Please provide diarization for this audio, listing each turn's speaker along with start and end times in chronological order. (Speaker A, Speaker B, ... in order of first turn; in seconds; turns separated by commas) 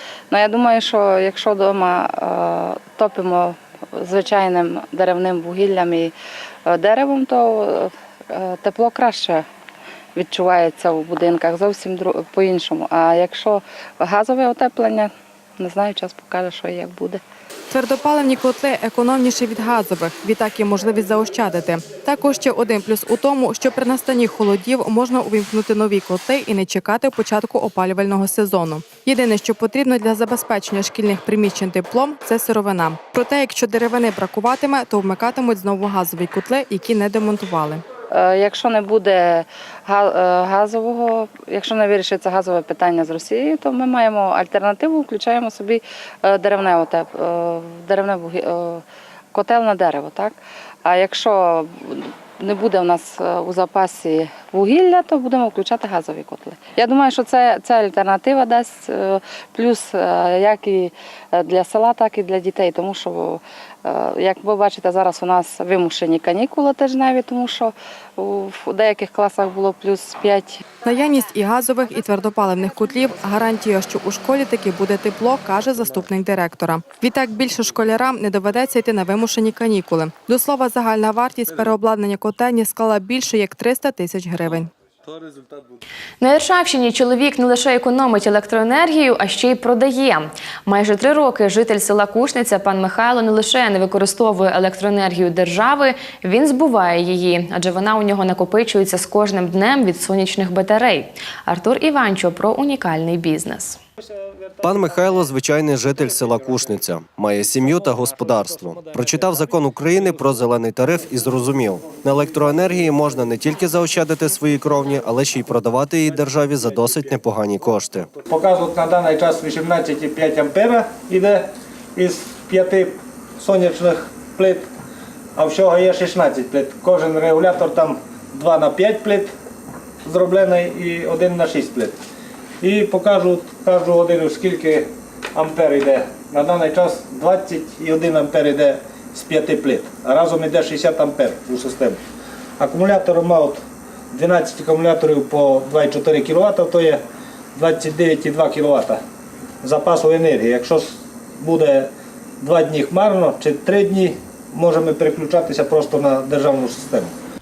Speaker A: 0.3-6.1, Speaker A: 6.7-9.4, Speaker A: 10.2-17.2, Speaker B: 17.7-37.8, Speaker A: 38.1-70.6, Speaker B: 70.8-84.7, Speaker C: 86.2-103.8, Speaker D: 104.6-118.1, Speaker E: 118.3-124.7, Speaker E: 125.4-129.3, Speaker E: 130.0-131.9, Speaker E: 132.6-142.0, Speaker E: 142.6-143.6, Speaker E: 144.1-147.0, Speaker E: 147.5-149.0, Speaker E: 149.6-151.9, Speaker E: 152.4-157.1